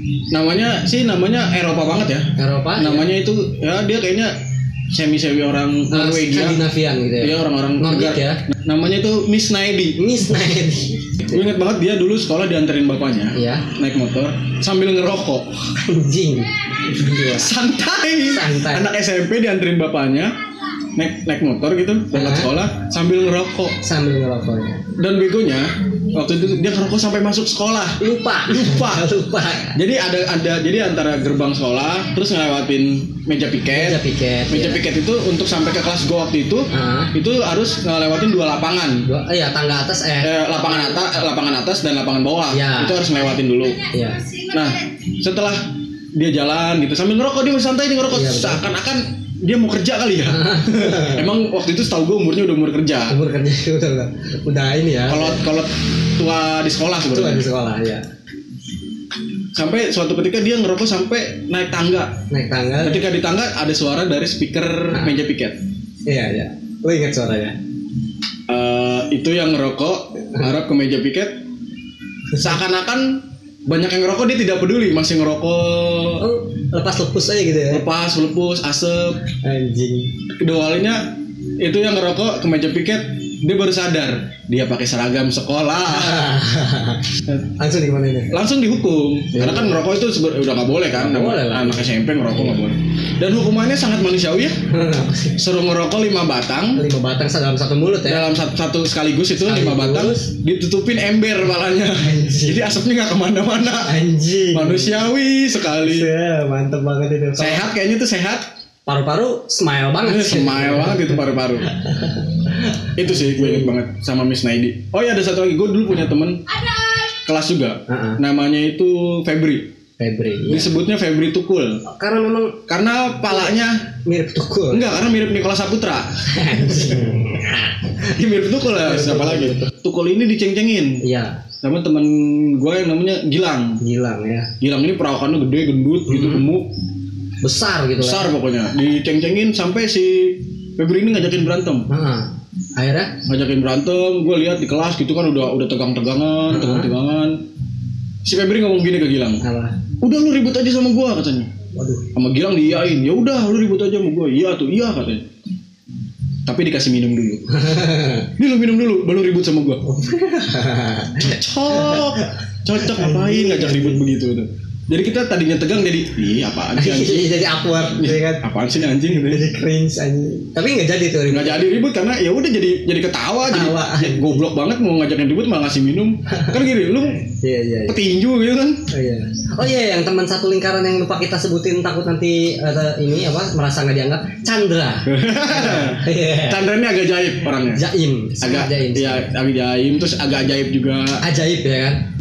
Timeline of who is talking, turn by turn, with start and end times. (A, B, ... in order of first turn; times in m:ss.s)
0:00.3-0:04.3 A
0:02.4-0:03.0 B
0:04.9-0:06.6 A
0:05.9-0:08.4 B
0:07.2-0:10.0 A
0:10.0-0:11.5 B
0:11.3-0:15.5 A
0:13.3-0:13.6 B
0:15.8-0:17.5 B
0:17.2-0:20.4 A
0:18.2-0:18.9 B
0:20.9-0:23.8 A
0:22.1-0:22.5 B
0:23.8-0:24.8 B
0:25.0-0:29.1 A
0:28.0-0:29.8 B
0:29.7-0:39.0 A
0:33.7-0:34.8 B
0:36.7-0:37.1 B
0:39.1-0:40.3 B
0:40.2-0:43.9 A
0:42.5-0:43.0 B
0:43.9-0:44.2 B
0:44.5-0:53.2 A
0:48.1-0:48.6 B
0:50.3-0:51.3 B
0:53.1-0:55.4 B
0:55.1-0:57.5 A
0:57.1-0:58.1 B
0:59.5-1:02.1 A
1:02.3-1:03.0 B
1:02.8-1:05.6 A
1:06.1-1:07.6 B
1:08.5-1:11.4 A
1:12.4-1:16.2 A
1:16.2-1:17.8 B
1:17.7-1:19.2 A
1:19.4-1:20.1 B
1:20.4-1:21.0 A
1:21.6-1:26.3 A
1:25.9-1:27.0 B
1:27.6-1:28.4 B
1:28.3-1:34.6 A
1:29.3-1:29.8 B
1:30.9-1:32.6 B
1:34.7-1:35.4 B
1:35.4-1:36.8 A
1:36.8-1:38.3 B
1:38.0-1:44.0 A
1:39.4-1:40.3 B
1:42.0-1:42.8 B
1:43.8-1:45.0 B
1:44.5-1:46.1 A
1:45.8-1:47.6 B
1:47.4-1:48.4 A
1:48.8-1:53.7 B
1:50.0-1:51.7 A
1:53.0-1:56.4 A
1:57.2-1:59.7 A
1:57.9-1:58.2 B
2:00.0-2:00.7 B
2:00.5-2:01.8 A
2:01.8-2:02.6 B
2:02.7-2:03.8 A
2:04.0-2:04.9 B
2:04.7-2:07.0 A
2:06.3-2:08.1 B
2:08.1-2:11.0 A
2:08.8-2:09.7 B
2:11.0-2:11.4 B
2:11.6-2:13.8 A
2:13.8-2:14.5 B
2:14.6-2:16.7 A
2:16.1-2:16.4 B
2:17.4-2:18.3 B
2:18.0-2:21.9 A
2:21.9-2:23.1 B
2:23.3-2:27.4 A
2:26.5-2:26.9 B
2:28.2-2:29.4 A
2:29.4-2:29.8 B
2:30.0-2:31.5 A
2:31.7-2:32.0 B
2:32.1-2:35.2 A
2:36.4-2:37.4 A
2:37.5-2:38.3 B
2:38.4-2:39.8 A
2:39.8-2:44.0 B
2:41.2-2:47.4 A
2:46.8-2:48.4 B
2:48.0-2:49.5 A
2:49.0-2:51.7 B
2:51.3-2:57.3 A
2:53.5-2:54.3 B
2:56.3-2:56.6 B
2:57.4-2:58.0 B
2:57.9-2:58.8 A
2:58.9-3:06.7 B
3:05.0-3:07.8 A
3:07.7-3:09.2 B
3:08.4-3:11.2 A
3:11.2-3:12.0 B